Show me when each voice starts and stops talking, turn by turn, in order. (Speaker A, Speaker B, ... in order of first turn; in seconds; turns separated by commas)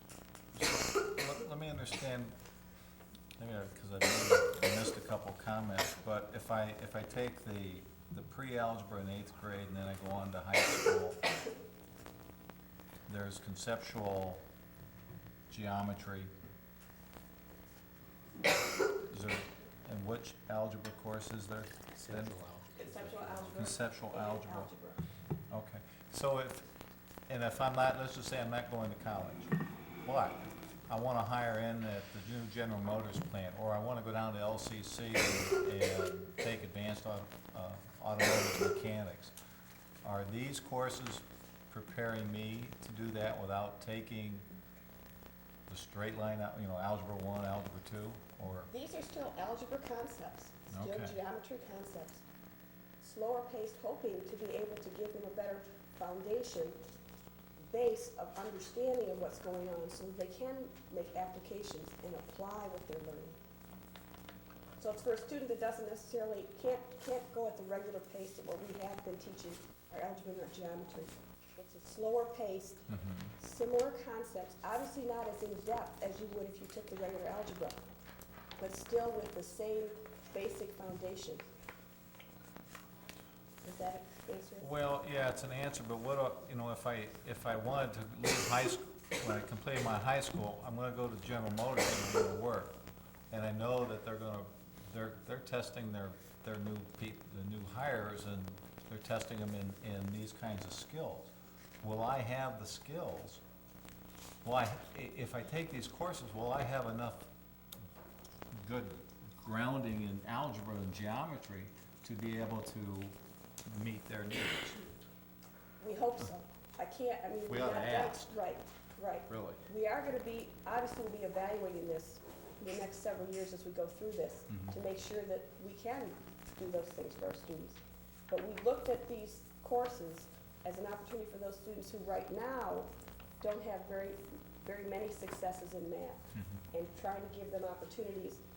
Speaker A: 0.5-2.4, Speaker A: 3.4-11.2, Speaker A: 13.1-14.4, Speaker A: 15.5-16.3, Speaker A: 19.1-22.4, Speaker B: 22.7-25.0, Speaker A: 23.5-24.7, Speaker A: 25.5-26.7, Speaker A: 27.3-39.3, Speaker A: 40.0-44.5, Speaker A: 45.7-48.7, Speaker B: 48.7-52.2, Speaker A: 50.7-51.2, Speaker B: 53.0-56.8, Speaker B: 57.6-63.4, Speaker B: 64.8-72.8, Speaker A: 72.9-73.3, Speaker B: 73.4-77.8, Speaker B: 78.6-81.4, Speaker B: 83.6-84.7, Speaker A: 84.6-92.8, Speaker A: 93.3-103.4, Speaker A: 104.4-107.3, Speaker A: 108.5-114.8, Speaker B: 115.8-138.4, Speaker A: 117.5-118.4, Speaker A: 119.3-119.6, Speaker A: 124.5-124.8, Speaker A: 136.3-136.6